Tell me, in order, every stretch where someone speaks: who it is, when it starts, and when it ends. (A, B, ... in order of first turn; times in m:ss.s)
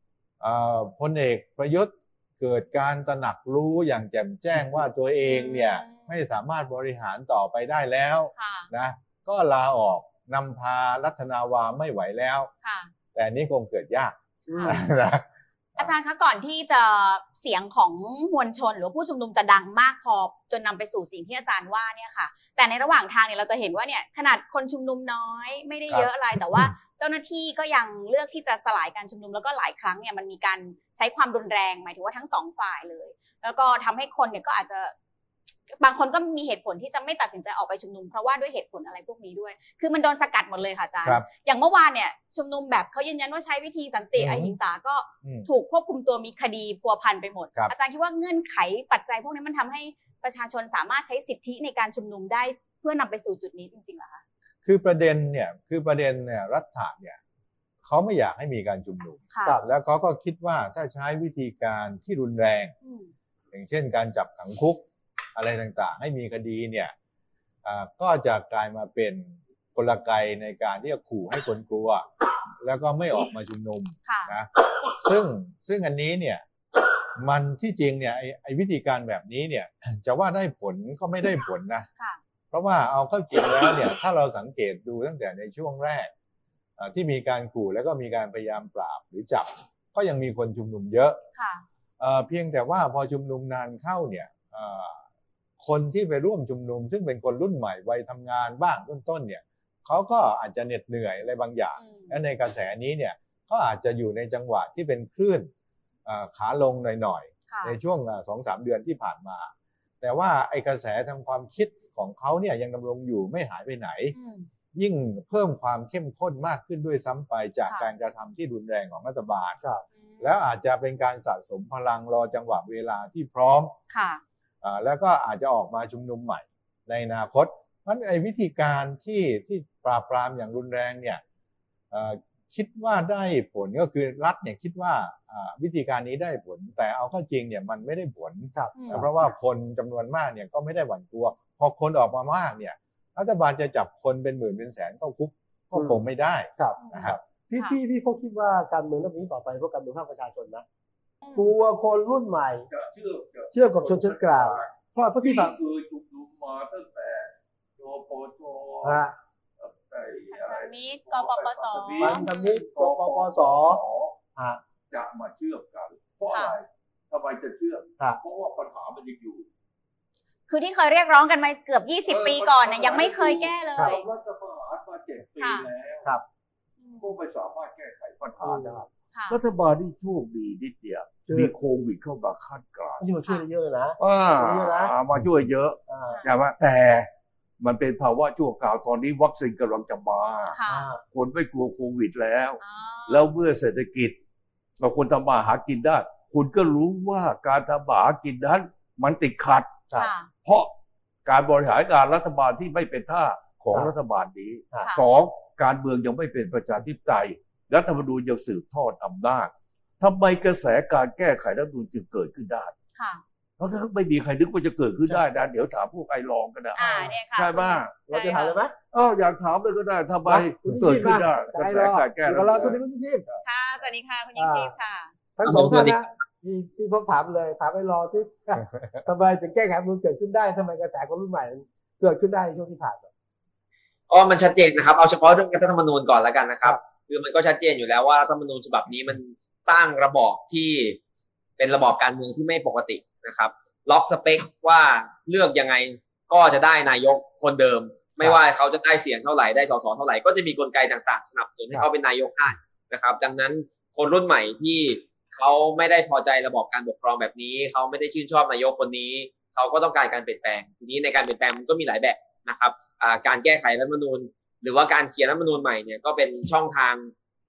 0:00.4-0:12.5 A
0:05.2-0:06.1 B
0:08.4-0:08.7 B
0:12.6-0:12.9 B
0:13.1-0:15.9 A
0:14.5-0:14.8 C
0:15.8-0:34.9 B
0:25.9-0:26.7 A
0:35.8-0:54.2 B
0:44.2-0:44.6 A
0:54.6-0:57.2 A
0:57.8-1:02.7 A
0:59.3-0:59.6 B
1:02.8-1:03.1 B
1:03.5-1:06.9 A
1:07.6-1:16.4 A
1:14.0-1:14.3 B
1:17.2-1:21.9 A
1:22.5-1:26.1 A
1:26.8-1:31.2 A
1:31.4-1:31.6 B
1:32.0-1:35.0 A
1:35.6-1:45.5 A
1:41.8-1:42.2 B
1:46.0-1:54.1 A
1:47.5-1:47.8 B
1:54.1-1:54.5 B
1:54.7-1:59.6 A
2:00.0-2:00.3 B
2:00.2-2:03.7 A
2:03.9-2:04.2 B
2:04.6-2:11.2 A
2:11.9-2:27.2 A
2:18.5-2:19.1 C
2:18.7-2:19.3 B
2:26.6-2:30.6 C
2:26.8-2:27.8 B
2:31.2-2:31.5 B
2:31.4-2:32.7 C
2:32.7-2:39.0 D
2:33.5-2:35.6 C
2:38.8-2:39.1 C
2:39.6-2:44.2 D
2:40.3-2:42.6 B
2:42.0-2:43.8 C
2:44.4-2:44.6 C
2:44.9-2:49.4 D
2:46.3-2:46.6 B
2:50.5-2:54.0 B
2:52.1-2:56.1 D
2:55.4-2:55.7 B
2:56.8-2:57.1 B
2:57.0-3:03.0 D
2:58.4-2:58.8 C
2:59.1-2:59.4 B
3:03.0-3:04.9 C
3:04.0-3:07.1 D
3:05.9-3:06.2 C
3:07.6-3:10.6 D
3:10.5-3:10.9 B
3:10.7-3:11.0 C
3:11.1-3:14.1 D
3:12.6-3:13.3 B
3:14.8-3:19.8 D
3:19.9-3:20.3 B
3:20.4-3:20.7 D
3:21.2-3:32.7 D
3:33.0-3:33.2 B
3:33.6-3:37.9 D
3:36.7-3:38.6 B
3:38.1-3:38.7 C
3:38.9-3:42.8 D
3:40.2-3:43.2 C
3:43.4-3:45.1 B
3:44.4-3:44.7 C
3:45.4-3:53.1 C
3:45.4-3:46.0 E
3:54.1-4:01.0 E
4:01.6-4:27.1 E